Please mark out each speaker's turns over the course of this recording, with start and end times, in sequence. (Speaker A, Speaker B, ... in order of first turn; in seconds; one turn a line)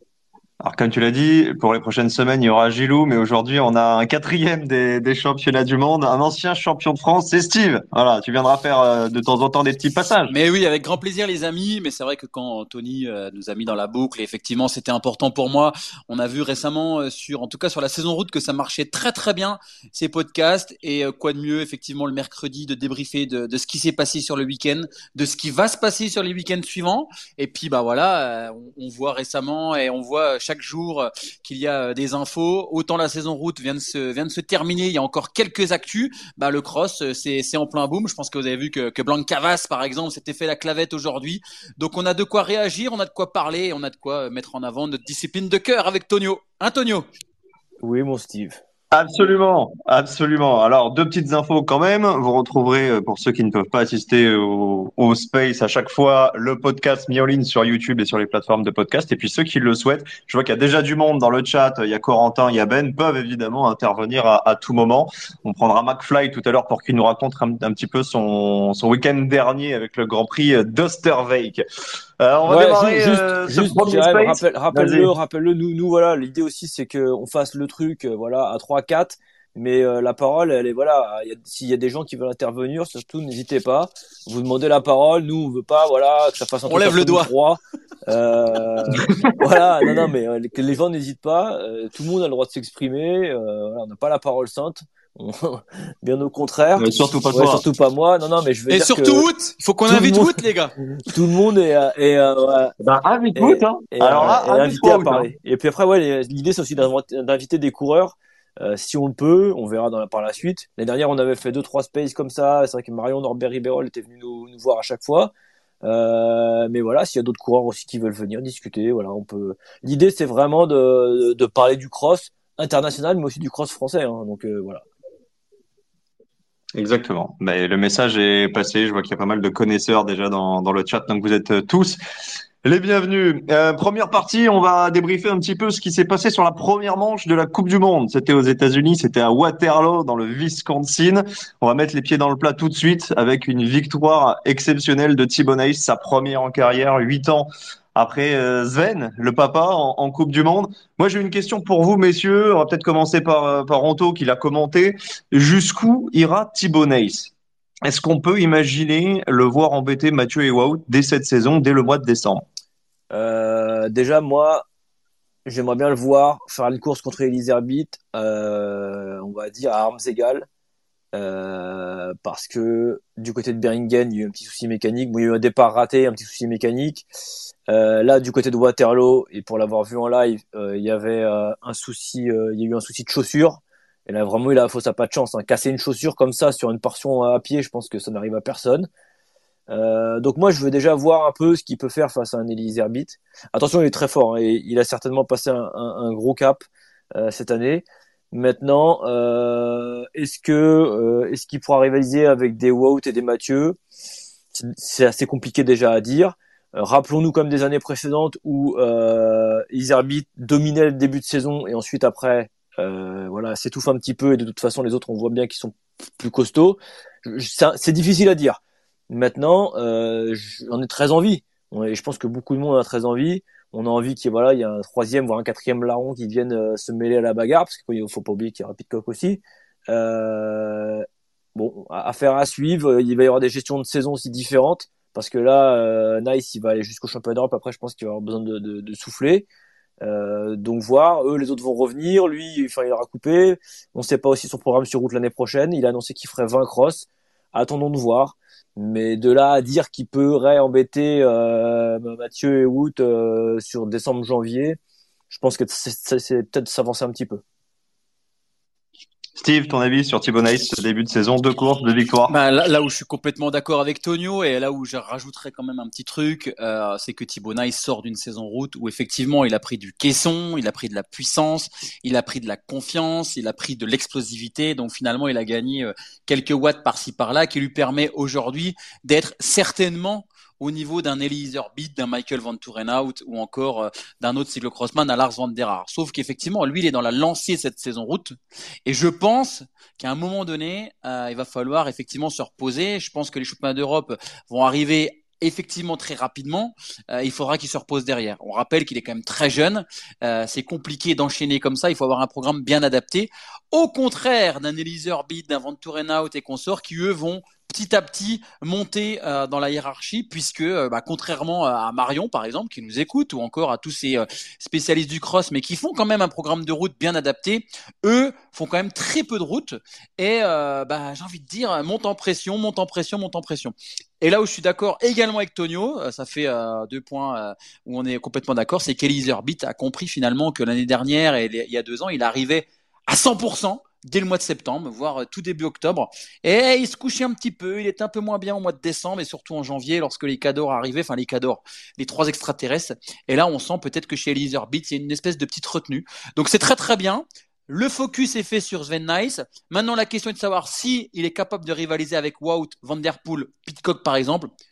Speaker A: 0.6-10.3
Speaker B: 10.3-47.1
Speaker C: 47.8-48.6
Speaker A: 48.9-71.6
Speaker A: 72.2-75.1
Speaker C: 72.5-99.3
Speaker B: 86.7-87.3
Speaker A: 96.8-97.6
Speaker B: 98.7-100.7
Speaker C: 99.9-100.4
Speaker C: 101.0-102.7
Speaker A: 102.8-105.3
Speaker C: 103.3-115.3
Speaker C: 115.8-124.8
Speaker A: 126.7-132.0
Speaker A: 132.6-157.3
Speaker A: 157.8-162.4
Speaker C: 163.1-164.7
Speaker C: 165.4-170.5
Speaker C: 171.1-177.1
Speaker C: 177.7-188.9
Speaker C: 189.7-196.6
Speaker C: 197.1-203.8
Speaker C: 204.5-239.4
Speaker C: 240.0-254.8
Speaker C: 255.3-257.4
Speaker A: 259.4-262.3
Speaker B: 262.3-354.5